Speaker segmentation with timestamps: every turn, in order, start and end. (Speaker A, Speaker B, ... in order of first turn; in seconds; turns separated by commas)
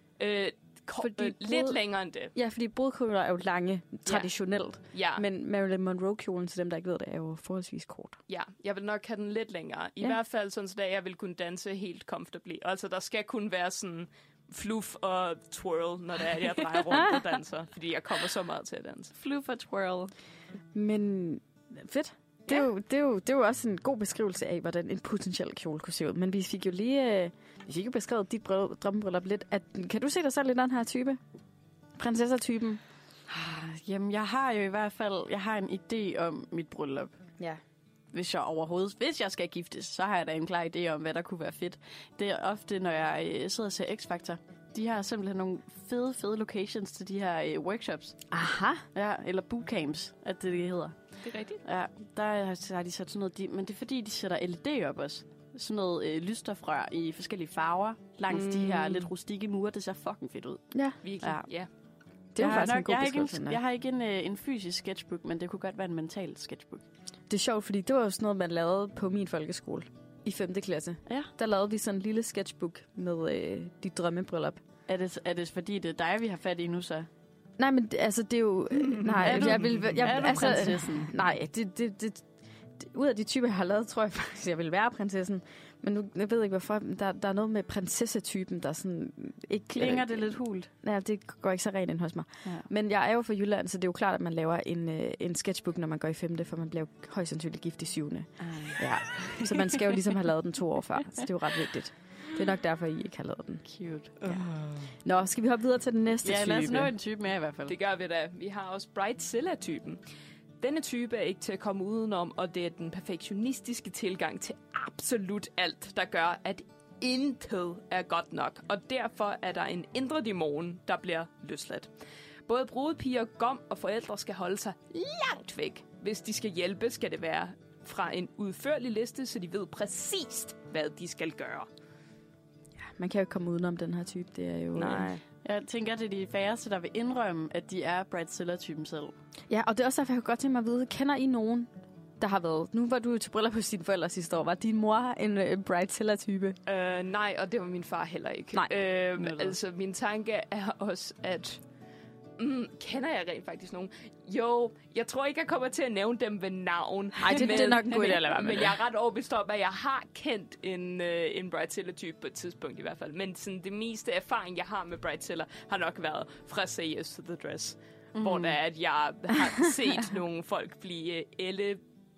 Speaker A: 0.2-2.3, Speaker B: 1.0-1.8, Speaker B: 2.3-8.2, Speaker A: 4.9-5.2, Speaker A: 8.3-19.1, Speaker C: 19.1-20.1, Speaker B: 20.7-31.2, Speaker B: 32.0-32.8, Speaker C: 33.3-37.2, Speaker C: 38.1-48.2, Speaker B: 48.3-48.8, Speaker C: 48.9-50.9, Speaker A: 51.2-51.6, Speaker C: 51.6-60.7, Speaker A: 58.3-59.1, Speaker A: 61.0-61.7, Speaker B: 62.3-63.6, Speaker C: 62.4-66.8, Speaker B: 67.3-74.6, Speaker C: 74.9-77.1, Speaker B: 77.6-103.7, Speaker A: 78.9-80.4, Speaker C: 79.2-81.1, Speaker C: 89.7-90.7, Speaker C: 98.4-98.8, Speaker C: 99.4-99.6, Speaker C: 103.7-104.4, Speaker B: 104.2-104.5, Speaker B: 105.0-106.9, Speaker C: 106.2-107.7, Speaker A: 107.7-110.0, Speaker A: 110.6-121.9, Speaker A: 122.5-131.7, Speaker B: 132.8-135.1, Speaker A: 134.7-135.2, Speaker C: 135.4-139.1, Speaker B: 139.5-146.6, Speaker A: 146.7-151.6, Speaker A: 152.4-171.8, Speaker B: 157.2-158.8, Speaker C: 168.1-168.6